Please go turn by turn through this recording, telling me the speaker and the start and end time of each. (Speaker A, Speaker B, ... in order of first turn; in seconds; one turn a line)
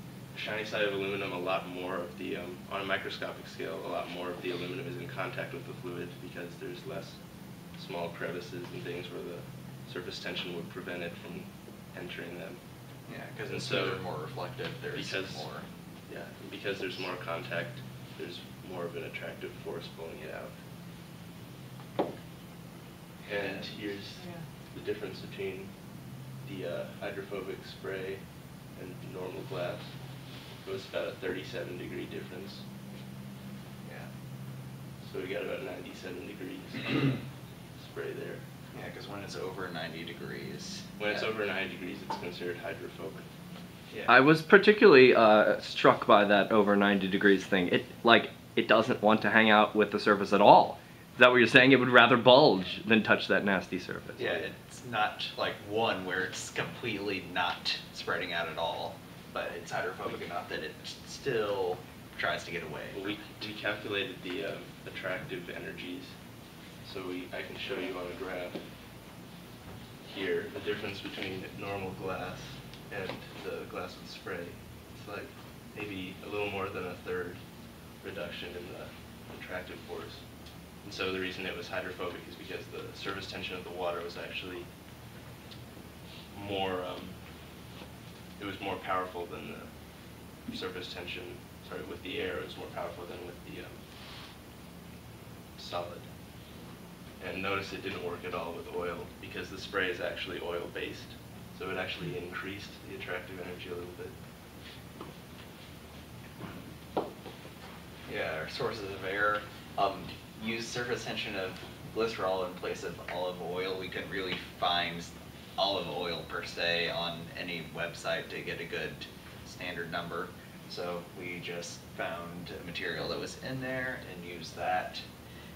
Speaker A: 0.3-14.3
Speaker B: 13.1-15.7
Speaker A: 14.9-20.5
Speaker B: 23.2-24.4
Speaker A: 23.2-25.8
Speaker A: 26.4-30.0
Speaker A: 30.5-32.6
Speaker B: 33.8-34.1
Speaker A: 35.0-37.2
Speaker A: 37.8-38.4
Speaker B: 38.7-41.3
Speaker A: 41.0-43.3
Speaker C: 44.1-54.4
Speaker B: 54.2-63.4
Speaker A: 62.9-66.2
Speaker A: 66.8-68.6
Speaker A: 70.0-77.4
Speaker A: 78.0-80.2
Speaker A: 80.8-84.7
Speaker A: 86.3-87.2
Speaker A: 88.4-89.7
Speaker A: 90.4-93.8
Speaker A: 95.6-96.1
Speaker A: 97.2-104.1
Speaker B: 108.0-125.0